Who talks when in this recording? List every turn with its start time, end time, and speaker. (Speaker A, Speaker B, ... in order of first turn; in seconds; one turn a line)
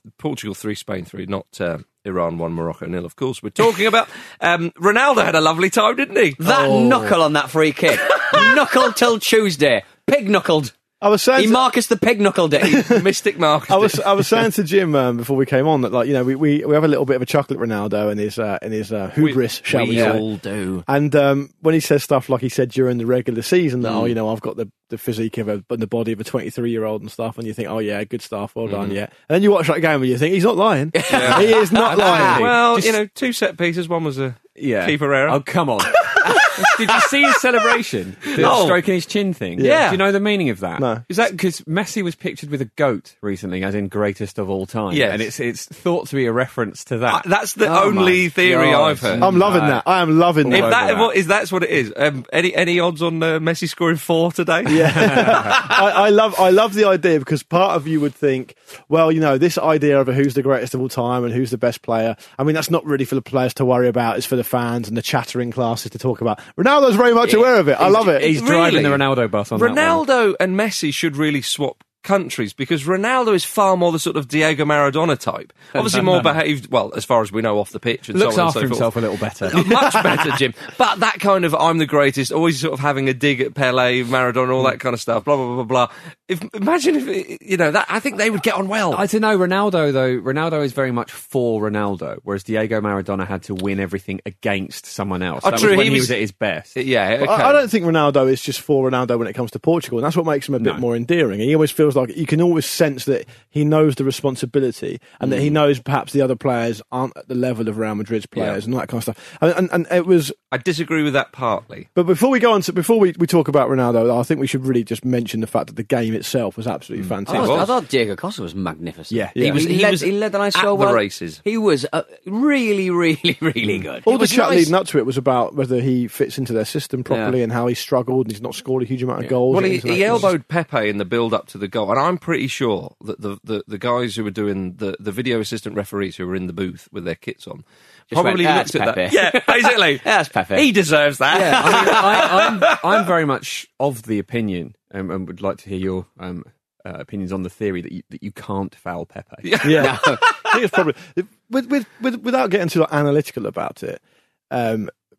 Speaker A: 0.2-6.8
Speaker B: 6.4-10.7
Speaker A: 8.2-8.5
Speaker C: 11.0-11.7
Speaker B: 11.3-12.9
Speaker A: 12.6-14.4
Speaker C: 13.7-20.2
Speaker A: 19.2-20.8
Speaker C: 20.9-32.4
Speaker B: 23.8-24.1
Speaker A: 28.6-29.0
Speaker B: 30.9-32.4
Speaker A: 31.1-35.4
Speaker D: 32.0-33.0
Speaker D: 34.6-47.2
Speaker A: 38.4-38.8
Speaker A: 39.6-40.0
Speaker C: 39.6-39.9
Speaker C: 40.8-41.0
Speaker A: 41.1-41.4
Speaker A: 44.9-45.3
Speaker A: 47.1-49.4
Speaker B: 47.6-49.0
Speaker D: 48.4-49.8
Speaker C: 49.2-50.7
Speaker D: 50.4-51.1
Speaker A: 50.5-55.8
Speaker C: 54.7-68.2
Speaker D: 55.0-55.5
Speaker D: 67.8-70.0
Speaker A: 68.1-79.0
Speaker D: 75.8-76.2
Speaker D: 78.1-79.6
Speaker A: 79.5-89.0
Speaker D: 88.9-96.7
Speaker A: 95.4-96.2
Speaker A: 96.7-97.7
Speaker C: 97.2-110.3
Speaker A: 108.3-108.6
Speaker A: 110.5-111.9
Speaker C: 111.9-117.7
Speaker B: 117.3-124.7
Speaker A: 117.3-117.7
Speaker C: 119.3-119.7
Speaker A: 119.3-121.4
Speaker C: 124.0-130.3
Speaker B: 127.1-127.3
Speaker A: 129.5-143.1
Speaker B: 138.1-140.7
Speaker B: 141.3-142.3
Speaker D: 141.3-149.5
Speaker A: 149.4-150.6
Speaker C: 149.6-154.9
Speaker B: 149.8-150.2